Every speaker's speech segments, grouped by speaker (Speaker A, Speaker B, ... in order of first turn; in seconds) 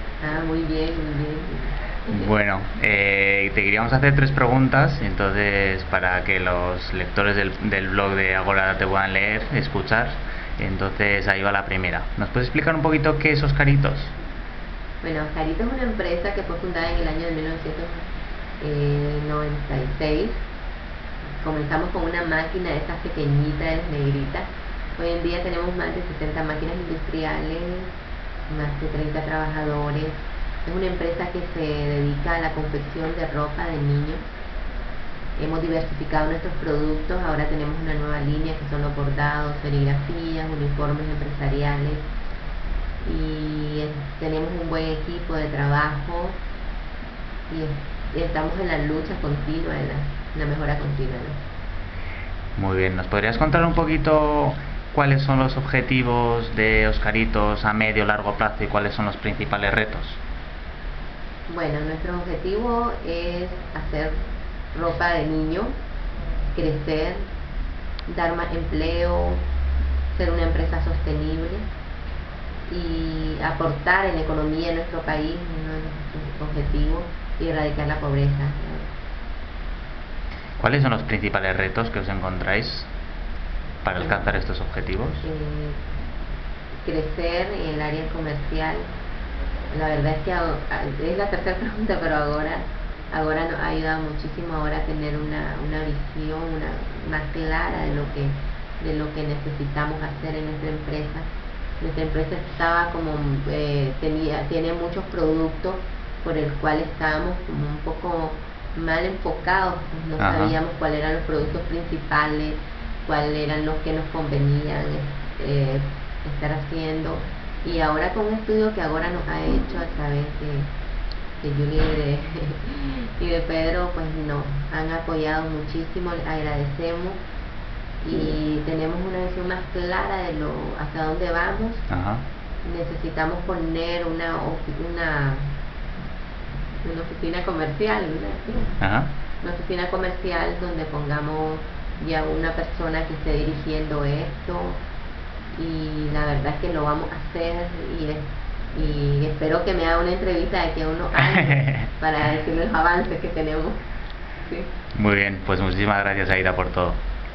Speaker A: 0.2-2.3, 15.0-18.1, 18.6-20.4, 21.4-24.5, 25.0-27.9, 28.5-34.2, 35.4-42.0, 43.0-46.4, 47.5-51.4, 61.5-64.1, 64.7-65.7, 66.5-67.2, 68.1-69.4, 70.1-71.6, 72.7-78.9, 84.0-84.2, 85.2-85.8, 86.8-88.8, 89.7-101.3, 101.8-120.7, 121.4-127.2, 128.0-131.8, 132.7-135.5, 136.8-138.7, 139.4-144.8, 145.6-153.8
Speaker B: 2.1-14.1, 52.6-60.2, 80.6-82.9, 83.8-85.2, 110.2-110.6, 131.9-132.2, 138.8-139.1, 154.9-157.0